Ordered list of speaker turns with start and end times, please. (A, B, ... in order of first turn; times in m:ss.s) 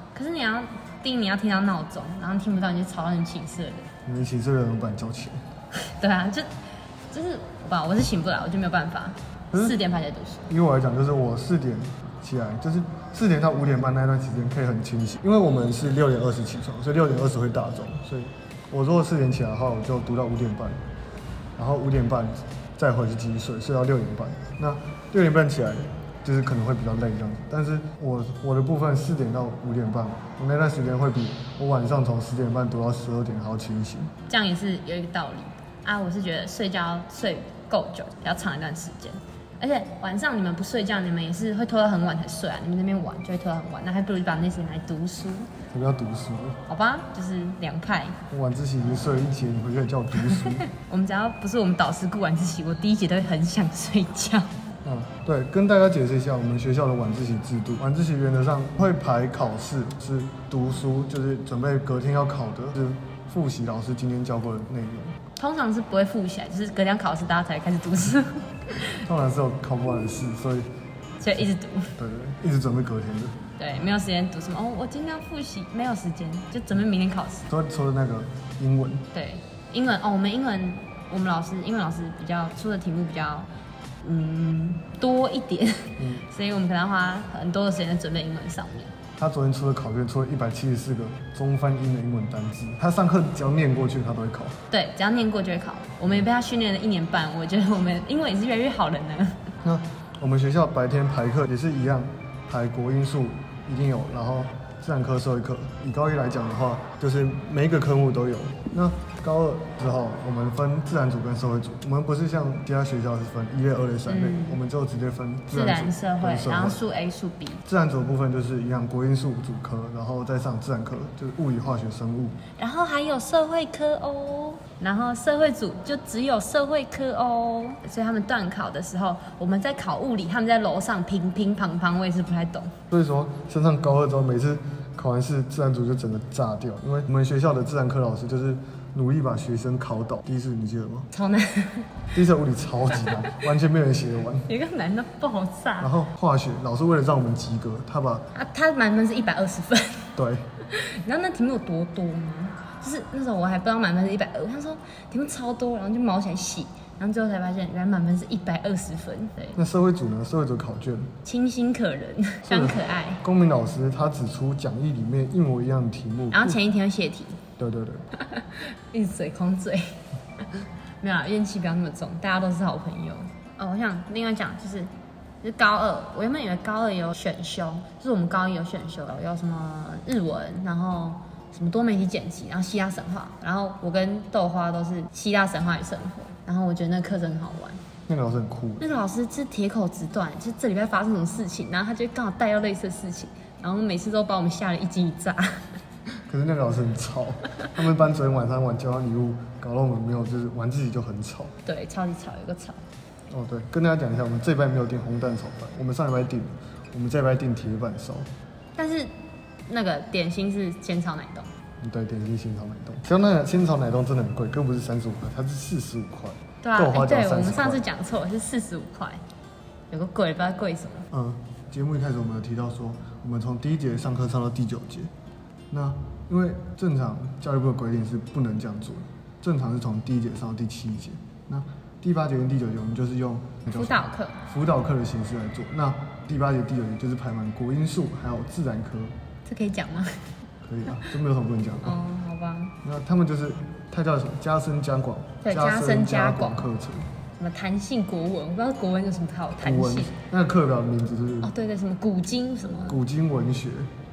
0:00.1-0:03.9 A
0:04.0-0:05.4 B
0:05.7-0:06.5 A
0:07.1-0:10.5 A
0:09.5-0:09.8 B
0:10.5-0:20.8 B
0:21.6-0:34.1 B
0:34.3-0:45.5 A
0:45.7-0:46.6 B
0:46.7-0:48.2 A
0:48.3-0:50.7 B
0:50.3-0:54.5 A
0:54.8-1:05.2 B
1:05.4-1:09.0 A
1:08.9-1:10.7 B
1:11.2-1:12.0 A
1:12.0-1:13.4 B
1:13.6-1:17.5 A
1:17.5-1:19.0 B
1:19.1-1:23.5 A
1:24.0-1:28.9 A
1:26.0-1:26.3 B
1:29.2-1:34.6 B
1:34.7-1:39.4 A
1:39.6-1:56.8 B
1:54.0-1:54.6 A
1:55.5-1:57.6 A
1:57.6-2:02.4 B
2:02.6-2:12.7 A
2:12.9-2:21.1 B
2:21.1-2:22.0 A
2:22.1-2:24.5 B
2:24.4-2:25.9 A
2:25.8-2:28.3 B
2:28.3-2:30.2 A
2:30.2-2:30.4 B
2:30.7-2:39.6 A
2:39.5-2:41.1 B
2:41.2-2:43.2 A
2:42.4-2:46.6 B
2:46.3-2:47.4 A
2:47.6-2:48.0 B
2:48.2-2:50.0 A
2:50.5-2:54.9 A
2:55.4-3:07.8 A
3:08.1-3:08.8 B
3:08.8-3:15.7 A
3:16.3-3:21.5 B
3:21.6-3:22.8 A
3:23.3-3:28.3 B
3:28.8-3:29.1 A
3:29.7-3:31.5 A
3:31.8-3:37.8 B
3:36.6-3:39.2 A
3:39.9-3:41.1 A
3:41.1-3:45.1 B
3:45.7-3:59.1 B
3:53.7-3:54.4 A
3:59.4-4:00.3 A
4:00.6-4:02.0 B
4:01.8-4:02.8 A
4:02.8-4:07.1 B
4:05.4-4:06.7 A
4:07.4-4:10.1 A
4:09.6-4:11.5 B
4:11.4-4:13.0 A
4:12.8-4:13.9 B